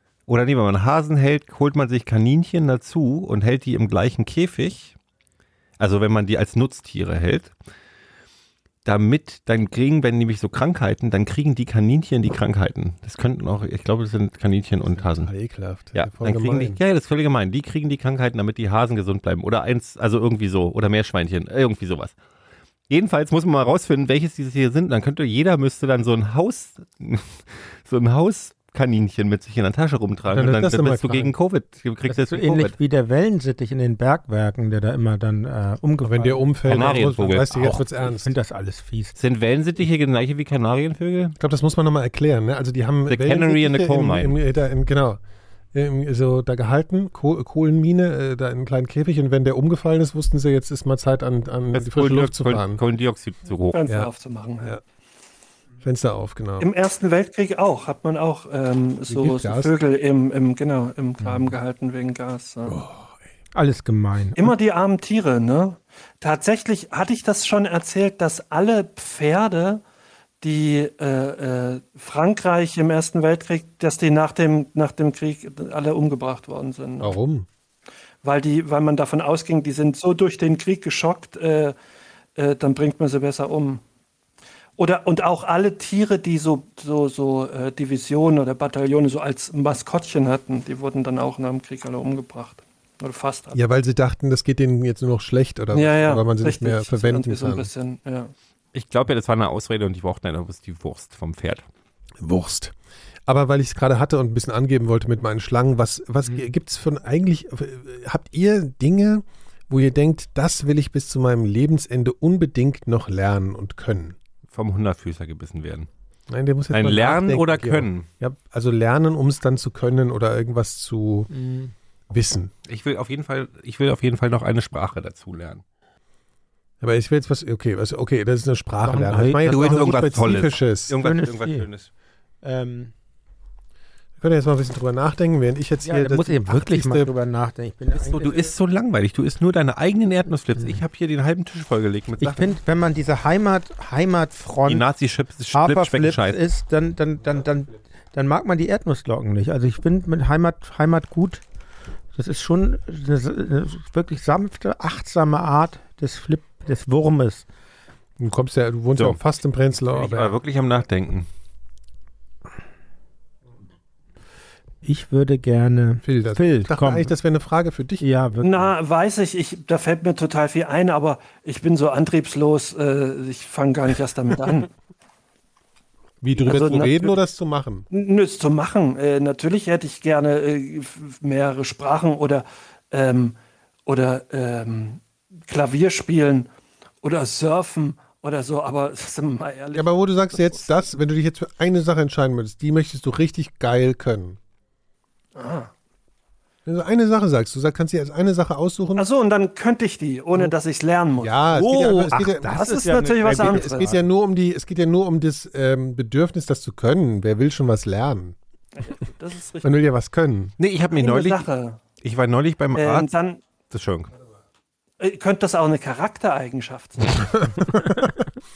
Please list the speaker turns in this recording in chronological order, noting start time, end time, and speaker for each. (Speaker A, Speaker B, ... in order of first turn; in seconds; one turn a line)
Speaker A: 0.3-4.9
Speaker A: 5.8-7.5
Speaker A: 8.8-15.3
Speaker B: 15.0-16.8
Speaker A: 15.9-22.1
Speaker A: 22.9-32.7
Speaker B: 30.3-31.3
Speaker C: 32.1-36.9
Speaker B: 36.0-38.3
Speaker A: 36.7-37.6
Speaker C: 37.5-39.1
Speaker A: 39.2-41.4
Speaker B: 41.4-45.2
Speaker A: 43.1-44.4
Speaker B: 45.7-52.8
Speaker A: 51.7-53.9
Speaker D: 53.7-54.8
Speaker B: 55.8-56.7
Speaker D: 56.6-62.8
Speaker B: 59.1-59.7
Speaker B: 62.6-63.1
Speaker C: 63.5-64.5
Speaker D: 64.4-69.8
Speaker D: 70.4-77.2
Speaker B: 77.0-77.5
Speaker D: 78.2-81.7
Speaker D: 82.3-83.8
Speaker D: 84.8-93.6
Speaker B: 93.5-97.7
Speaker D: 95.7-98.3
Speaker A: 98.7-101.6
Speaker B: 102.2-102.7
Speaker B: 103.2-114.2
Speaker A: 114.5-115.9
Speaker B: 116.3-121.3
Speaker A: 116.7-118.0
Speaker C: 121.3-121.7
Speaker B: 122.1-122.5
Speaker A: 122.7-125.6
Speaker B: 126.8-131.0
Speaker C: 128.8-130.3
Speaker A: 129.5-131.9
Speaker C: 131.0-131.7
Speaker C: 132.4-132.9
Speaker B: 134.2-137.1
Speaker C: 135.8-138.5
Speaker A: 138.0-142.5
Speaker C: 142.2-144.8
Speaker A: 144.7-146.4
Speaker C: 145.5-151.4
Speaker C: 152.1-157.4
Speaker B: 158.2-160.4
Speaker A: 159.9-161.3
Speaker C: 164.8-167.1
Speaker B: 166.0-168.1
Speaker C: 168.0-168.7
Speaker D: 168.4-174.7
Speaker B: 176.2-177.9
Speaker D: 176.4-177.2
Speaker D: 177.9-186.5
Speaker D: 187.0-190.6
Speaker B: 189.7-194.4
Speaker D: 195.3-195.7
Speaker B: 196.7-199.1
Speaker D: 198.9-201.5
Speaker B: 201.2-202.7
Speaker C: 201.5-204.0
Speaker D: 202.4-203.9
Speaker B: 203.2-208.3
Speaker D: 208.7-209.8
Speaker B: 209.6-210.5
Speaker A: 210.6-211.4
Speaker D: 210.9-211.8
Speaker A: 212.0-213.1
Speaker D: 212.8-213.4
Speaker A: 213.7-214.1
Speaker D: 215.0-217.5
Speaker B: 217.5-218.1